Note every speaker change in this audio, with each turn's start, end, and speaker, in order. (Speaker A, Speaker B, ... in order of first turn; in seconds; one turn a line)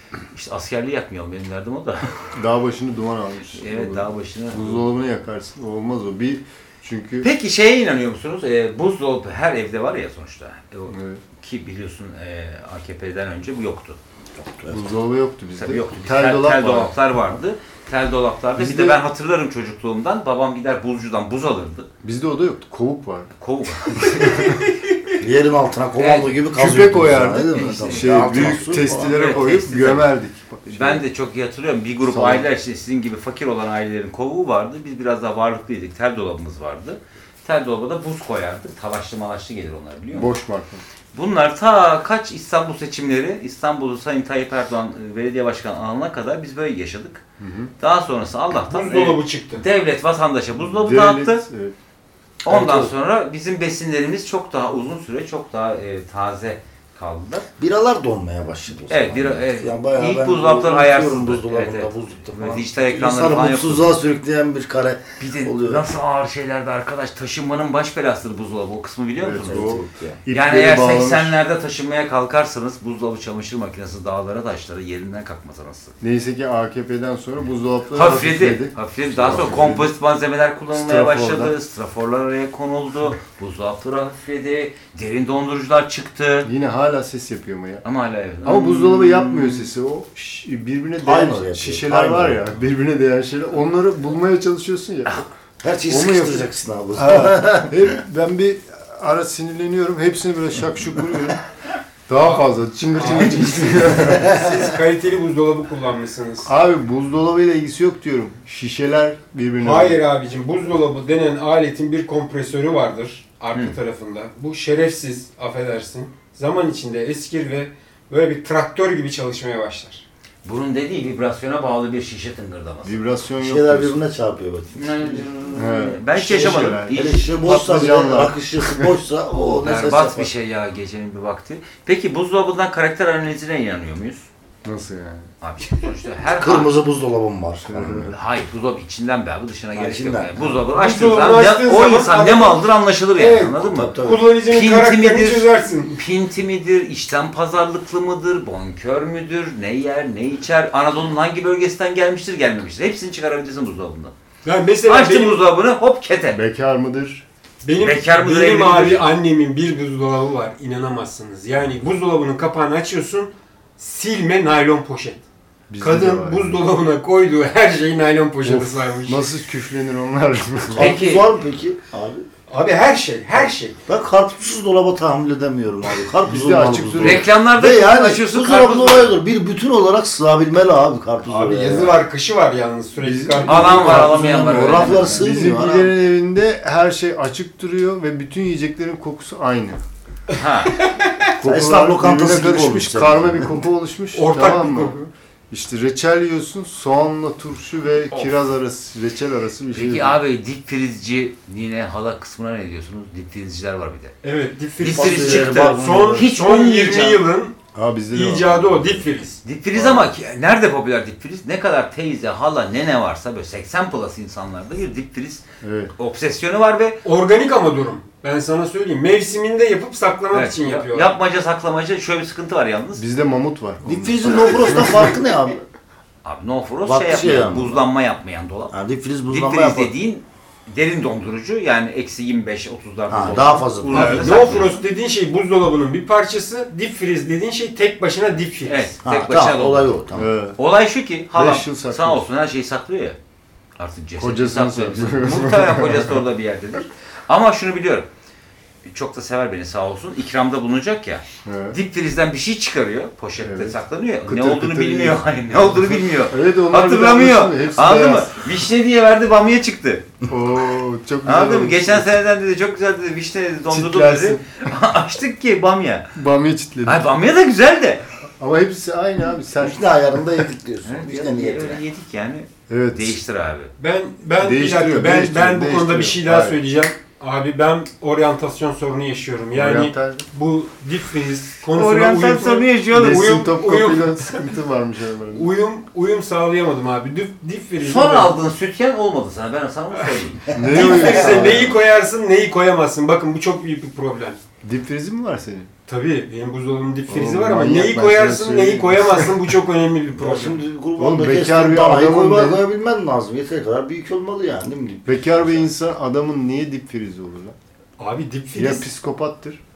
Speaker A: 0.3-2.1
Speaker B: 2.4-7.3
Speaker A: 3.6-4.9
Speaker A: 7.2-14.0
Speaker B: 10.9-11.2
Speaker C: 14.4-14.9
Speaker B: 14.7-16.9
Speaker A: 15.6-21.9
Speaker B: 18.6-19.0
Speaker B: 22.0-23.3
Speaker A: 23.4-24.6
Speaker B: 23.9-24.6
Speaker C: 25.2-29.2
Speaker A: 26.0-26.4
Speaker B: 26.5-31.0
Speaker A: 27.5-30.1
Speaker A: 30.7-40.3
Speaker B: 32.1-32.5
Speaker B: 40.1-40.8
Speaker A: 41.1-47.2
Speaker B: 47.4-47.7
Speaker A: 47.8-51.4
Speaker D: 48.7-49.6
Speaker B: 50.6-51.7
Speaker A: 52.4-57.5
Speaker C: 52.5-52.9
Speaker C: 57.6-65.8
Speaker A: 58.9-64.0
Speaker A: 65.2-69.7
Speaker B: 69.2-71.4
Speaker C: 69.3-70.2
Speaker A: 70.3-76.0
Speaker B: 76.0-79.9
Speaker A: 77.9-86.5
Speaker B: 80.7-81.5
Speaker B: 86.4-87.8
Speaker A: 87.8-89.4
Speaker B: 88.4-95.4
Speaker C: 91.0-92.4
Speaker C: 95.6-98.0
Speaker B: 95.9-101.4
Speaker B: 102.1-104.4
Speaker D: 102.2-106.5
Speaker A: 103.1-104.1
Speaker B: 106.5-110.0
Speaker D: 109.6-120.0
Speaker A: 120.4-123.0
Speaker B: 122.8-124.0
Speaker C: 123.4-125.2
Speaker A: 124.8-127.4
Speaker B: 125.5-129.0
Speaker C: 126.4-130.3
Speaker A: 129.6-134.3
Speaker B: 134.7-135.3
Speaker A: 135.4-136.7
Speaker C: 136.4-138.1
Speaker B: 137.7-138.1
Speaker A: 138.1-143.9
Speaker C: 139.8-140.6
Speaker D: 140.7-142.6
Speaker D: 143.2-146.0
Speaker C: 143.6-144.3
Speaker A: 144.5-154.1
Speaker D: 154.4-155.4
Speaker A: 154.9-156.4
Speaker B: 156.3-157.2
Speaker D: 157.6-165.2
Speaker A: 157.8-159.1
Speaker B: 165.7-166.6
Speaker D: 165.8-169.2
Speaker B: 168.4-170.9
Speaker C: 170.7-172.3
Speaker A: 170.8-171.3
Speaker D: 172.5-173.8
Speaker C: 173.9-182.0
Speaker B: 176.2-177.3
Speaker A: 177.0-179.2
Speaker D: 181.3-184.1
Speaker B: 183.0-189.8
Speaker A: 183.5-185.2
Speaker C: 183.6-185.9
Speaker A: 190.3-190.8
Speaker B: 191.4-200.2
Speaker C: 191.4-193.6
Speaker D: 194.1-195.0
Speaker A: 199.7-204.1
Speaker D: 204.2-207.6
Speaker A: 204.8-207.2
Speaker C: 204.8-206.3
Speaker B: 207.8-209.1
Speaker D: 208.1-209.4
Speaker A: 209.4-215.4
Speaker B: 209.7-210.1
Speaker B: 215.6-215.9
Speaker A: 216.0-217.0
Speaker D: 217.0-221.2
Speaker A: 220.3-223.0
Speaker B: 223.0-225.2
Speaker C: 223.8-225.6
Speaker A: 226.2-228.8
Speaker C: 226.8-227.8
Speaker C: 228.7-229.9
Speaker A: 229.3-234.8
Speaker C: 233.1-234.3
Speaker D: 233.9-238.9
Speaker A: 238.7-239.9
Speaker C: 239.0-240.3
Speaker B: 240.2-240.6
Speaker A: 240.6-243.2
Speaker B: 241.3-242.2
Speaker A: 243.8-248.1
Speaker B: 244.2-246.2
Speaker A: 248.8-260.1
Speaker B: 251.4-251.8
Speaker B: 253.4-258.4
Speaker B: 260.3-262.2
Speaker A: 261.2-266.1
Speaker B: 263.7-264.4
Speaker B: 266.1-267.1
Speaker A: 266.9-268.0
Speaker B: 268.4-269.9
Speaker C: 269.6-271.8
Speaker A: 270.9-273.7
Speaker B: 272.7-273.2
Speaker D: 273.8-284.5
Speaker B: 274.4-276.6
Speaker B: 279.5-280.3
Speaker A: 281.7-283.2
Speaker B: 282.9-285.5
Speaker D: 285.3-288.3
Speaker A: 287.8-291.0
Speaker B: 290.5-291.8
Speaker D: 290.6-294.4
Speaker B: 294.6-295.7
Speaker D: 295.9-300.6
Speaker B: 297.1-299.3
Speaker C: 300.1-305.5
Speaker B: 301.0-302.6
Speaker B: 305.1-307.6
Speaker D: 308.0-308.9
Speaker B: 308.5-309.6